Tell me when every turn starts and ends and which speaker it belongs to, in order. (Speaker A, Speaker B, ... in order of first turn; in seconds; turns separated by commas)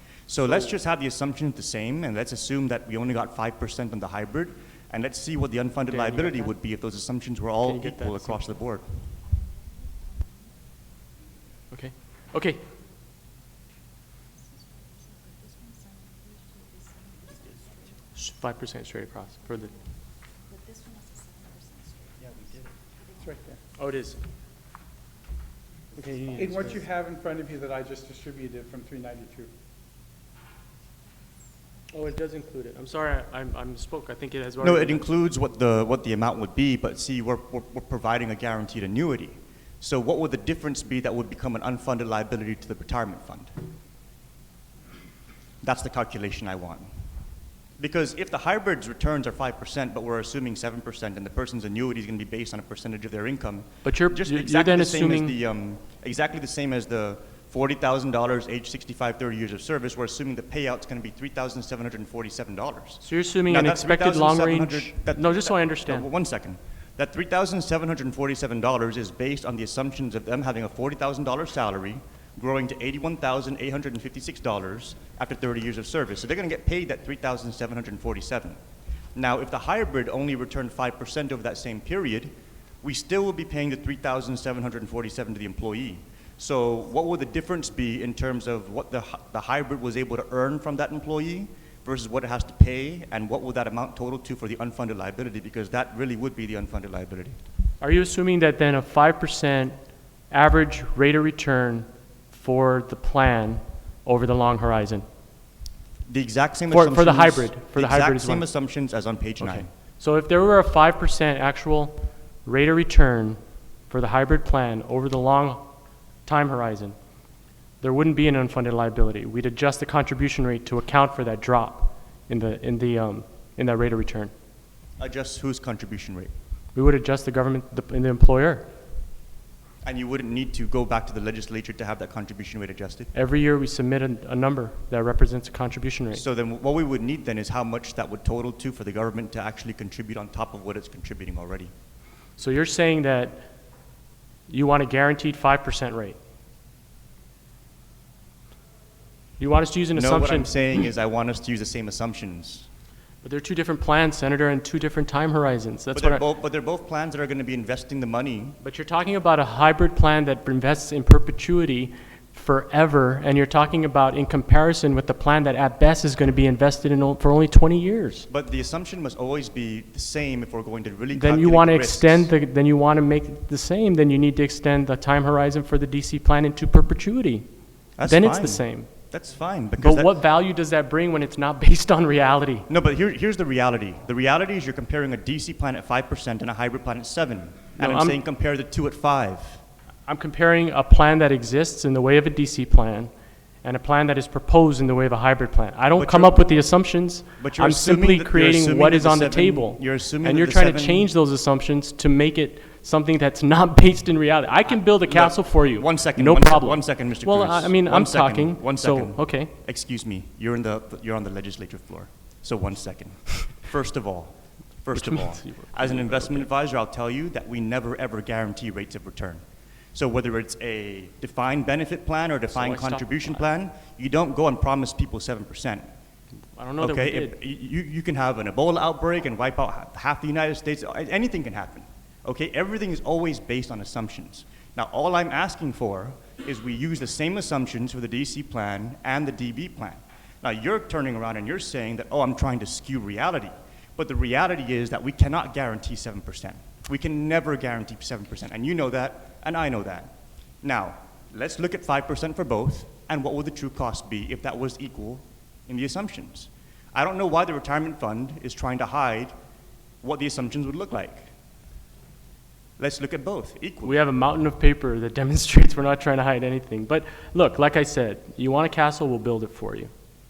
Speaker A: 0.3-8.9, Speaker B: 5.9-6.5, Speaker B: 7.6-8.4, Speaker B: 11.7-12.6, Speaker B: 18.1-19.8, Speaker C: 23.2-23.6, Speaker B: 23.8-24.2, Speaker B: 26.0-26.9, Speaker C: 26.4-29.5, Speaker B: 31.9-35.0, Speaker A: 34.6-43.5, Speaker A: 45.6-46.9, Speaker A: 47.8-78.6, Speaker B: 53.8-55.3, Speaker B: 63.0-66.1, Speaker A: 79.2-97.4, Speaker B: 97.8-99.8, Speaker B: 100.3-105.1, Speaker A: 106.1-109.7, Speaker B: 106.7-108.5, Speaker B: 109.4-115.7, Speaker B: 116.2-117.0, Speaker B: 117.8-124.3, Speaker A: 125.0-126.3, Speaker B: 126.7-128.7, Speaker A: 129.8-133.1, Speaker B: 133.1-136.2, Speaker A: 136.1-141.7, Speaker B: 142.4-143.4, Speaker B: 144.5-146.2, Speaker B: 149.4-150.5, Speaker A: 149.9-152.7, Speaker B: 153.2-156.2, Speaker A: 155.9-158.6, Speaker B: 158.6-168.3, Speaker A: 168.3-172.3, Speaker B: 171.1-177.4, Speaker A: 178.0-180.1, Speaker B: 178.0-178.9, Speaker B: 179.8-182.7, Speaker A: 182.7-189.6, Speaker B: 187.8-188.2, Speaker B: 190.1-193.1, Speaker B: 193.6-209.5, Speaker A: 195.9-196.5, Speaker A: 197.4-201.1, Speaker A: 204.7-219.4, Speaker B: 214.9-216.4, Speaker A: 219.9-225.9, Speaker B: 222.5-223.4, Speaker B: 226.6-227.3, Speaker A: 226.8-259.3, Speaker A: 260.0-261.3, Speaker A: 262.8-263.9, Speaker B: 263.8-269.9